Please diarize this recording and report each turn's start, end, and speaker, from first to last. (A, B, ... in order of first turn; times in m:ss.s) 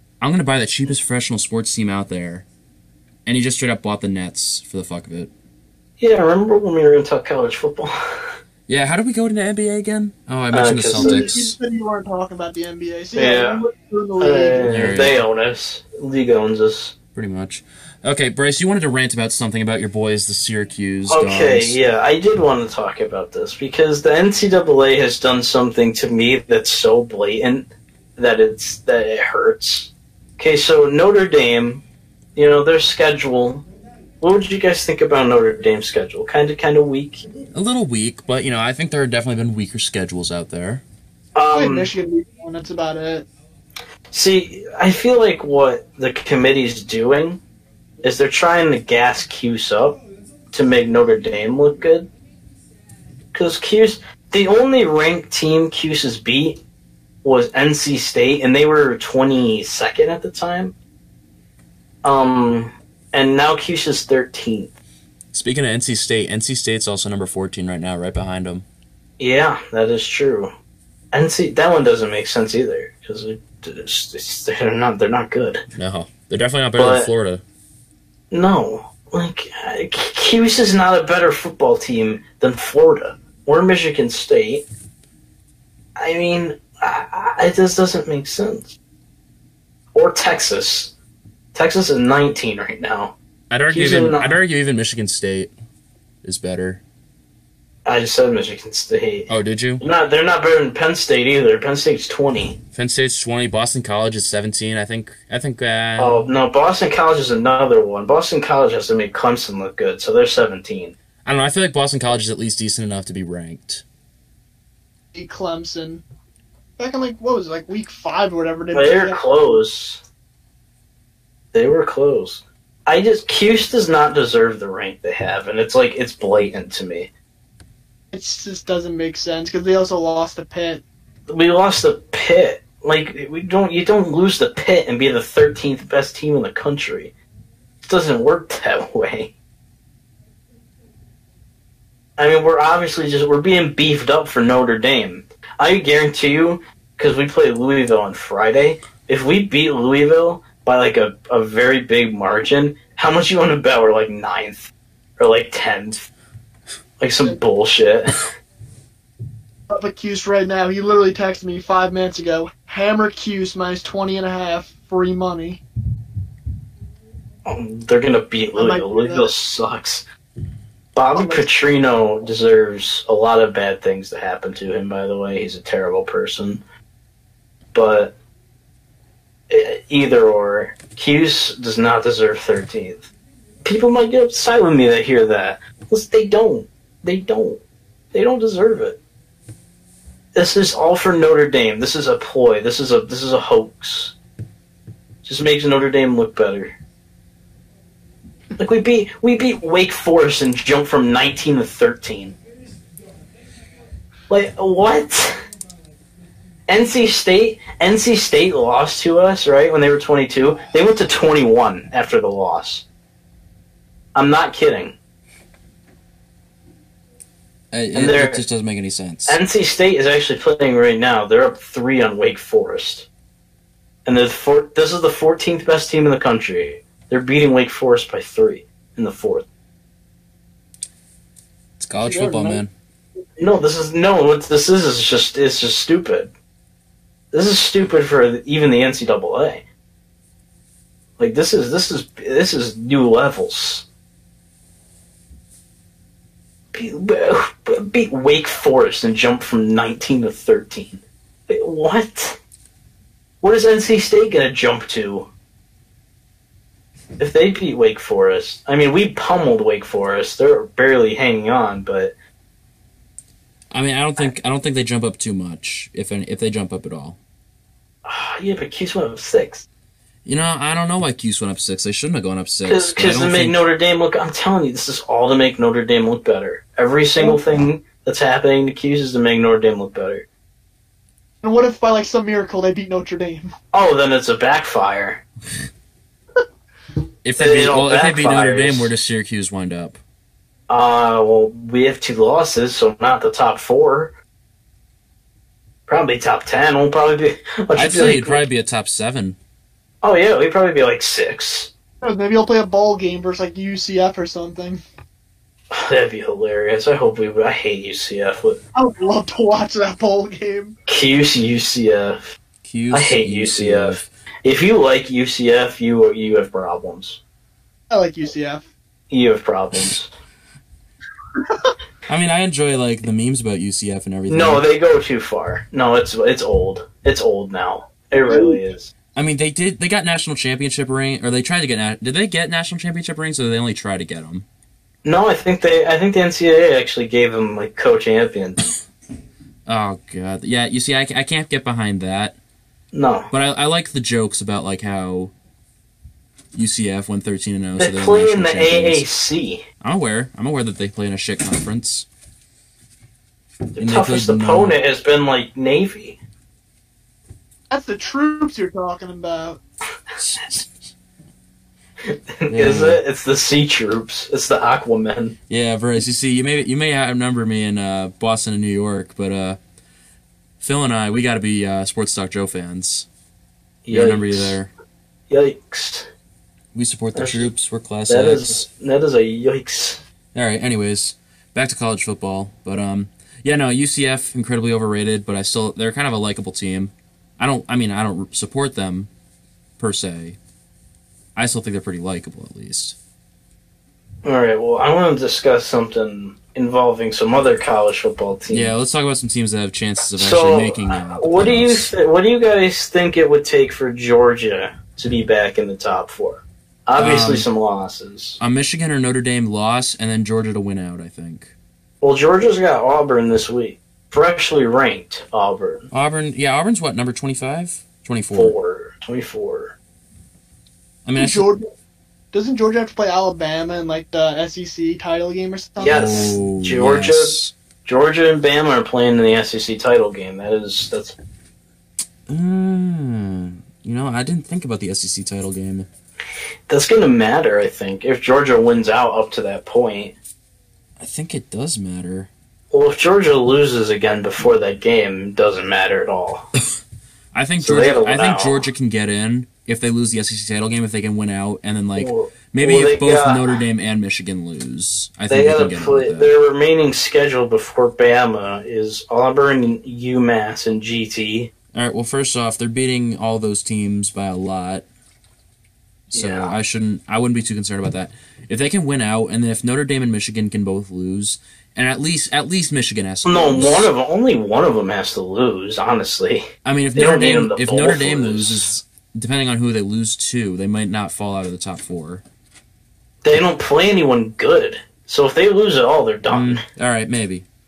0:00.2-0:02.5 A
0:03.2-0:05.3 A
0:06.0-0:08.3 B
0:08.7-0:11.5 A
0:10.5-0:11.5 B
0:11.0-0:14.9 C
0:13.1-0:13.6 B
0:14.2-0:16.9 B
0:14.6-0:15.2 A
0:17.1-0:21.8 A
0:21.1-0:31.8 B
0:32.4-0:33.6 B
0:34.2-0:37.2 B
0:37.5-0:40.8 A
0:41.3-0:41.9 B
0:41.5-0:43.3 C
0:44.1-0:47.4 B
0:48.0-0:50.0 B
0:50.5-0:52.1 B
0:53.3-0:56.6 B
0:57.2-1:00.7 B
1:02.0-1:04.7 B
1:05.3-1:08.6 A
1:09.2-1:10.5 B
1:11.1-1:15.6 B
1:15.7-1:17.4 A
1:16.8-1:17.1 B
1:18.3-1:24.7 B
1:26.0-1:28.8 B
1:29.9-1:30.9 B
1:31.5-1:33.2 B
1:33.5-1:35.5 A
1:33.7-1:34.4 B
1:36.2-1:36.8 A
1:37.8-1:42.6 B
1:39.3-1:39.8 A
1:42.7-1:46.2 A
1:46.0-1:51.0 B
1:51.2-1:53.8 A
1:55.1-1:56.0 C
1:56.8-1:59.2 C
1:58.7-2:00.0 B
2:01.5-2:07.1 B
2:08.1-2:10.8 C
2:11.3-2:17.1 B
2:17.8-2:19.3 B
2:22.2-2:36.1 B
2:37.0-2:38.2 B
2:39.7-2:45.6 C
2:47.4-2:50.0 B
2:48.6-2:49.3 C
2:50.9-2:56.6 B
2:51.1-2:51.5 C
2:57.7-2:58.2 B
2:59.5-3:03.1 B
3:03.6-3:07.6 B
3:08.1-3:09.0 B
3:10.3-3:14.2 B
3:15.2-3:16.7 B
3:18.6-3:22.4 B
3:24.3-3:25.4 B
3:26.7-3:32.8 B
3:34.1-3:35.0 B
3:37.7-3:39.4 A
3:37.9-3:38.4 B
3:39.2-3:43.1 B
3:44.0-3:49.4 B
3:51.8-3:52.7 A
3:52.0-3:52.6 C
3:53.4-3:56.3 B
3:57.3-3:59.6 B
4:01.2-4:03.8 B
4:06.7-4:12.4 B
4:13.4-4:15.3 B
4:17.2-4:22.1 B
4:23.7-4:27.2 A
4:28.0-4:29.6 B
4:30.2-4:33.6 A
4:32.6-4:40.2 B
4:41.4-4:43.5 C
4:43.7-4:45.2 B
4:47.2-4:50.0 A
4:47.4-4:48.9 B
4:50.7-4:54.1 B
4:55.9-4:58.4 B
4:57.7-4:59.4 A
5:00.0-5:01.7 B
5:02.0-5:04.8 C
5:05.7-5:08.6 B
5:08.7-5:10.8 C
5:10.9-5:12.4 B
5:12.6-5:14.1 A
5:12.9-5:17.2 B
5:17.9-5:18.7 C
5:19.1-5:20.1 B
5:22.1-5:24.6 A
5:24.3-5:28.9 B
5:28.2-5:28.6 C
5:29.1-5:34.4 A
5:35.0-5:38.6 B
5:39.6-5:42.4 A
5:42.9-5:43.3 B
5:43.3-5:45.3 A
5:46.5-5:49.0 A
5:47.8-5:49.6 B
5:49.8-5:52.1 A
5:53.8-5:54.8 A
5:53.8-5:56.2 B
5:57.7-5:59.6 C
6:00.2-6:00.6 A
6:02.0-6:05.4 B
6:02.5-6:03.0 A
6:05.5-6:09.6 A
6:10.6-6:13.1 A
6:13.8-6:14.6 B
6:13.9-6:14.7 A
6:15.3-6:16.1 B
6:16.7-6:18.6 A
6:17.1-6:17.5 B
6:18.1-6:20.0 B
6:20.3-6:29.1 A
6:29.8-6:30.4 A
6:31.3-6:33.0 A
6:34.2-6:38.7 B
6:38.5-6:41.9 A
6:40.1-6:48.4 B
6:47.0-6:47.5 A
6:48.4-6:51.5 A
6:52.0-6:55.9 B
6:55.9-6:58.5 A
6:58.3-6:59.8 B
7:01.0-7:01.5 A
7:01.2-7:01.7 C
7:02.3-7:06.2 C
7:05.8-7:11.2 B
7:05.8-7:07.5 A
7:12.3-7:15.9 A
7:16.7-7:20.2 B
7:21.0-7:22.3 A
7:22.7-7:26.5 B
7:27.3-7:36.3 A
7:27.6-7:28.7 B
7:32.0-7:33.6 B
7:35.3-7:41.5 B
7:41.7-7:44.8 A
7:46.1-7:46.5 B
7:46.1-7:53.9 A
7:53.2-7:58.7 B
7:56.6-8:02.2 A
8:03.2-8:06.6 B
8:06.3-8:07.4 A